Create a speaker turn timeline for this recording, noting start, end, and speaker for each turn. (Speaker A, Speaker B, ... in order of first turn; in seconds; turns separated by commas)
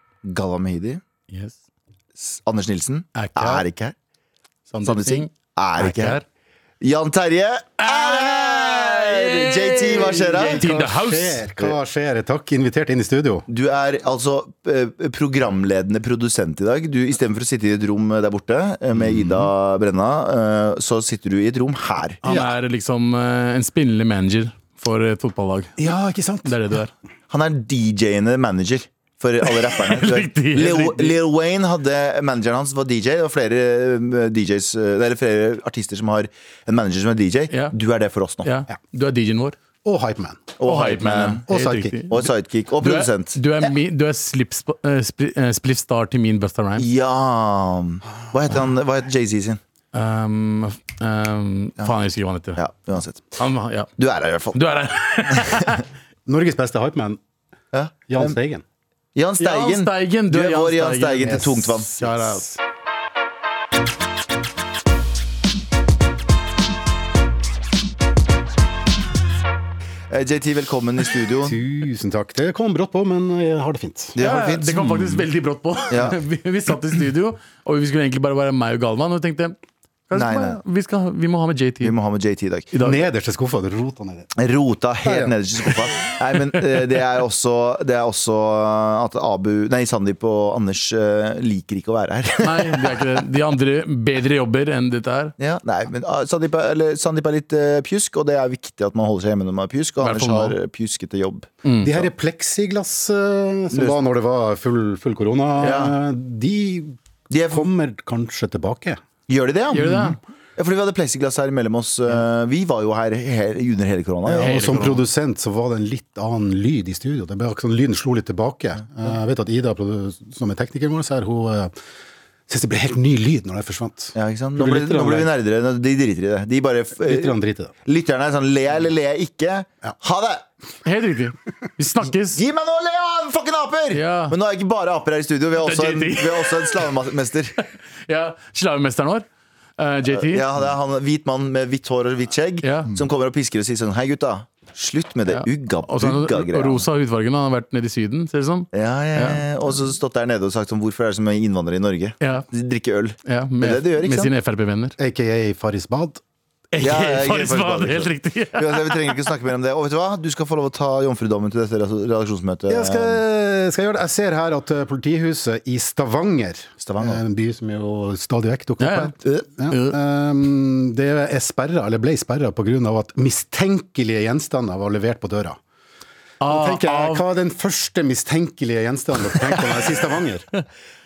Speaker A: 0.2-1.0, Speaker B: 1.3-1.6, Speaker A: 2.2-4.0, Speaker B: 3.1-3.7, Speaker B: 4.7-6.2, Speaker A: 4.8-6.2, Speaker A: 6.8-10.6, Speaker B: 7.8-11.5, Speaker C: 10.1-13.5, Speaker A: 13.5-22.2, Speaker C: 18.9-19.5, Speaker C: 22.2-22.5, Speaker B: 22.2-25.9, Speaker C: 25.8-26.6, Speaker B: 26.4-26.9, Speaker A: 27.3-38.5, Speaker B: 29.4-31.2, Speaker B: 38.4-39.6, Speaker C: 39.8-40.6, Speaker A: 40.6-41.5, Speaker B: 40.6-42.3, Speaker C: 41.5-42.3, Speaker A: 42.1-43.7, Speaker B: 42.8-46.9, Speaker A: 46.8-49.6, Speaker B: 49.9-52.6, Speaker A: 52.6-53.3, Speaker B: 53.4-53.9, Speaker A: 54.0-54.6, Speaker B: 54.5-55.8, Speaker C: 56.3-57.2, Speaker A: 57.7-58.4, Speaker C: 58.1-58.6, Speaker A: 59.1-62.3, Speaker B: 59.4-62.6, Speaker C: 61.3-61.6, Speaker A: 70.1-71.6, Speaker C: 71.4-74.2, Speaker A: 74.2-75.2, Speaker B: 74.2-79.6, Speaker A: 75.9-76.2, Speaker B: 80.1-82.0, Speaker A: 80.1-80.6, Speaker A: 81.8-82.7, Speaker B: 82.7-83.0, Speaker C: 82.8-84.3, Speaker A: 84.4-93.1, Speaker C: 85.0-85.8, Speaker B: 92.4-95.3, Speaker A: 95.4-102.0, Speaker B: 100.0-100.6, Speaker B: 101.6-101.9, Speaker C: 101.8-107.0, Speaker A: 105.6-106.0, Speaker A: 107.3-107.7, Speaker C: 107.5-109.0, Speaker A: 109.3-114.8, Speaker B: 109.7-110.2, Speaker C: 114.2-121.7, Speaker B: 114.4-115.0, Speaker C: 122.5-125.3, Speaker A: 124.2-127.3, Speaker C: 127.0-127.7, Speaker A: 127.8-130.5, Speaker B: 130.8-132.4, Speaker A: 132.3-137.6, Speaker B: 133.9-134.4, Speaker B: 135.6-136.9, Speaker B: 137.6-139.3, Speaker B: 139.8-140.5, Speaker A: 140.1-146.9, Speaker B: 142.6-142.9, Speaker B: 145.3-149.4, Speaker A: 148.7-154.3, Speaker B: 152.2-152.5, Speaker B: 153.3-155.0, Speaker C: 155.0-156.2, Speaker B: 156.7-159.2, Speaker A: 156.8-163.2, Speaker C: 162.7-175.6, Speaker A: 166.8-167.2, Speaker B: 168.8-169.1, Speaker B: 169.7-170.0, Speaker B: 176.4-177.2, Speaker C: 176.5-180.5